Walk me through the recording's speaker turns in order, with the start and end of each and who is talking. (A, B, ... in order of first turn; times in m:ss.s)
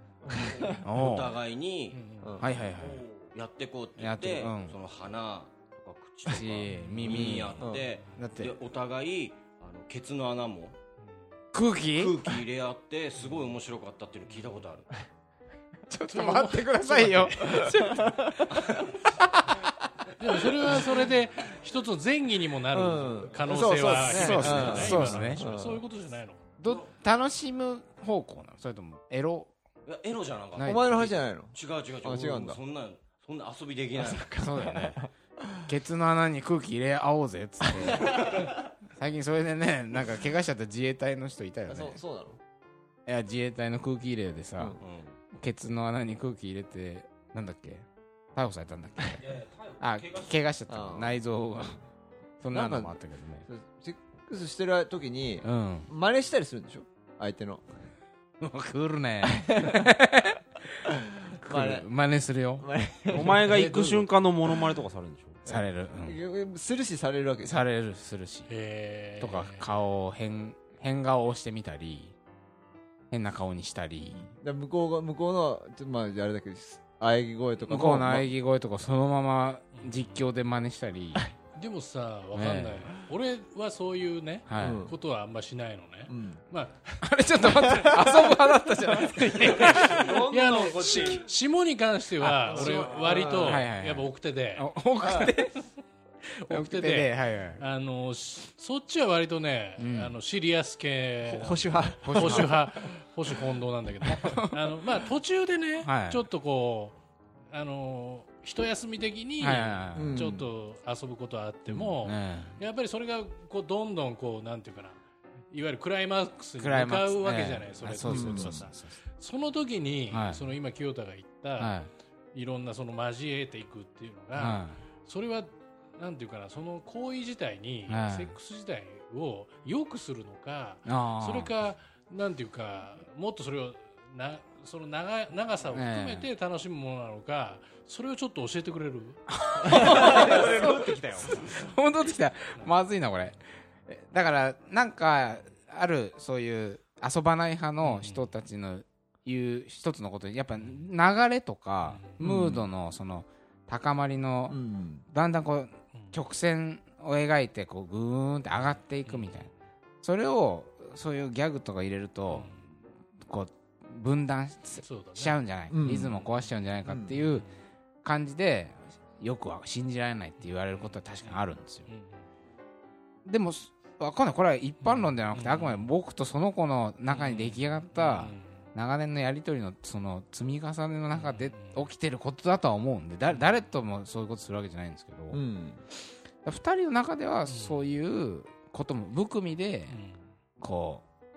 0:00.2-0:00.8 A
0:00.3-0:00.8 B
0:00.8-0:02.1 C
0:00.8-0:01.4 D
0:01.9-0:02.7 E
0:02.2-0:02.5 B
0:02.4-0:03.0 D
0:02.8-0:03.3 A
0:03.3-0:10.8 C
0:04.0-0:04.8 D
0:06.3-0:08.5 D
0:06.7-0:07.4 E
0:07.6-0:07.9 B
0:11.5-0:12.4 D
0:11.9-0:14.9 C
0:15.9-0:18.6 D
0:16.1-0:17.7 E
0:17.5-0:18.6 B
0:20.2-0:26.4 E
0:22.7-0:25.8 B
0:24.0-0:25.4 D
0:26.6-0:29.5 D
0:29.9-0:34.4 C
0:30.6-0:31.1 D
0:30.6-0:32.6 B
0:34.0-0:35.1 B
0:34.4-0:35.1 D
0:35.6-0:38.3 D
0:37.8-0:38.4 B
0:38.9-0:42.0 D
0:41.7-0:42.4 B
0:43.1-0:44.8 D
0:44.8-0:45.2 C
0:45.3-0:51.8 D
0:49.2-0:50.4 A
0:50.7-0:51.2 B
0:52.4-0:53.5 D
0:52.5-0:53.0 B
0:53.5-0:57.6 B
0:55.4-0:55.9 D
0:58.4-1:00.4 D
0:59.3-0:59.9 B
1:00.9-1:01.8 B
1:01.4-1:02.7 D
1:02.6-1:04.1 B
1:03.1-1:05.5 A
1:05.5-1:06.2 D
1:05.5-1:07.6 B
1:07.4-1:08.5 D
1:08.5-1:09.6 E
1:09.2-1:12.2 D
1:13.1-1:14.3 D
1:14.1-1:18.3 B
1:17.7-1:21.2 D
1:19.7-1:20.1 E
1:21.6-1:27.8 E
1:22.3-1:22.9 D
1:24.5-1:24.8 D
1:24.6-1:25.0 B
1:26.1-1:26.4 B
1:27.0-1:30.2 D
1:27.6-1:28.4 B
1:29.2-1:34.7 E
1:29.7-1:31.2 A
1:30.3-1:31.1 C
1:32.2-1:32.8 D
1:32.5-1:33.6 A
1:32.5-1:33.6 B
1:33.4-1:35.6 D
1:35.0-1:35.3 B
1:36.3-1:37.6 D
1:36.5-1:47.0 E
1:39.8-1:40.1 D
1:41.2-1:43.0 B
1:42.0-1:42.5 D
1:44.1-1:44.8 D
1:45.8-1:46.2 D
1:47.5-2:01.7 E
1:49.4-1:50.3 D
1:50.0-1:50.5 B
1:52.0-1:52.6 D
1:56.6-1:59.0 D
1:58.0-1:58.6 B
2:00.1-2:00.5 D
2:01.6-2:01.9 D
2:02.3-2:19.2 E
2:04.4-2:04.8 D
2:07.9-2:08.4 D
2:10.9-2:11.5 D
2:15.7-2:16.3 D
2:19.3-2:34.6 D
2:19.7-2:20.4 B
2:20.1-2:20.4 A
2:21.3-2:21.7 E
2:27.8-2:28.3 E
2:30.6-2:30.9 E
2:31.9-2:32.2 E
2:32.2-2:32.7 B
2:34.5-2:35.0 B
2:35.1-2:39.5 D
2:39.0-2:39.5 E
2:40.0-2:42.6 D
2:42.3-2:42.6 E
2:43.2-2:47.5 D
2:44.8-2:45.4 E
2:45.7-2:46.2 B
2:46.9-2:47.2 B
2:48.0-2:51.9 D
2:50.8-2:52.3 E
2:53.2-3:05.4 D
2:54.8-2:55.9 E
2:57.1-2:58.7 E
3:01.1-3:01.9 E
3:05.3-3:05.8 B
3:06.4-3:10.0 D
3:07.5-3:07.8 E
3:09.9-3:10.3 E
3:10.6-3:11.0 D